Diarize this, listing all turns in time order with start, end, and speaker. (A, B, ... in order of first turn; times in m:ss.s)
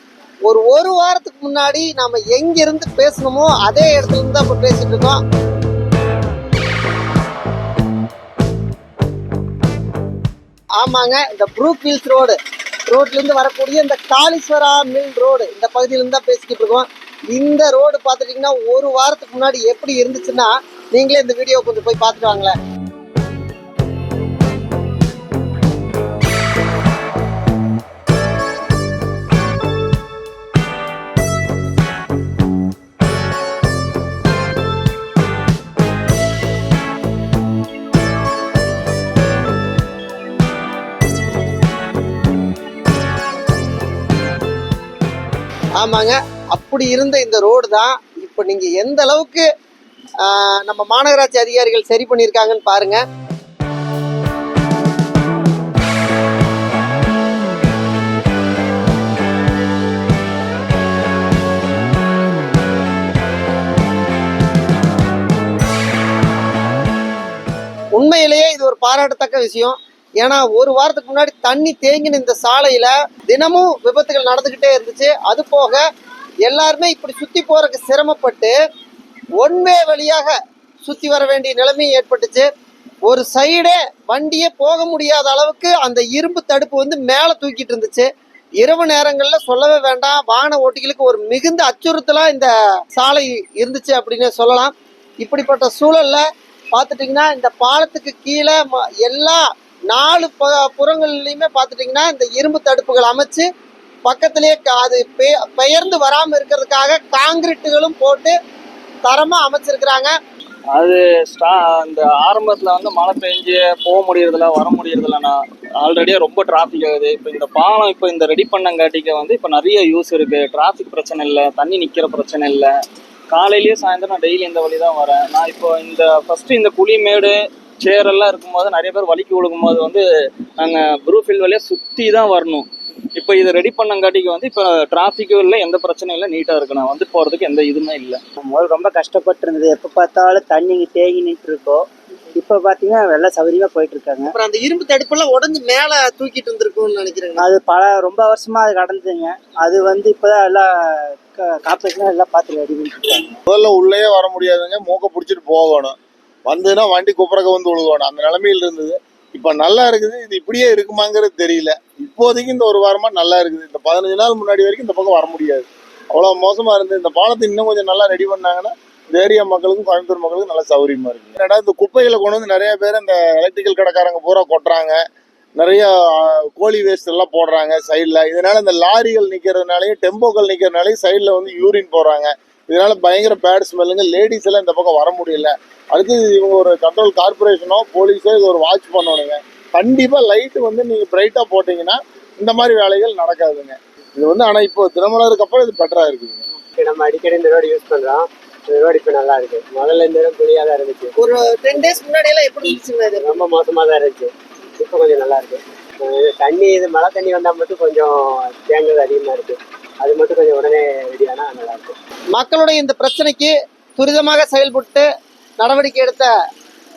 0:00.4-0:05.2 A
0:10.8-0:12.4 A
0:12.9-0:22.6 A
0:45.8-0:49.4 A
0:50.2-0:53.0 A
1:08.0-1:15.8 A
1:16.5-1:18.5 A
1:19.4-1:20.3 A
1:20.8-1:22.5 A
1:23.0-1:28.1 A
1:28.6-1:43.4 A
1:44.0-1:48.4 A
1:49.0-1:50.1 A
1:50.7-2:02.7 B
2:03.3-2:10.0 B
2:10.6-2:18.2 B
2:18.4-2:24.3 C
2:24.3-2:27.5 A
2:27.4-2:33.4 C
2:33.5-2:36.0 D
2:36.5-2:55.0 D
2:55.6-3:16.4 D
3:16.8-3:21.1 E
3:21.2-3:23.3 A
3:23.2-3:31.9 E
3:32.3-3:35.0 A
3:35.6-3:36.3 A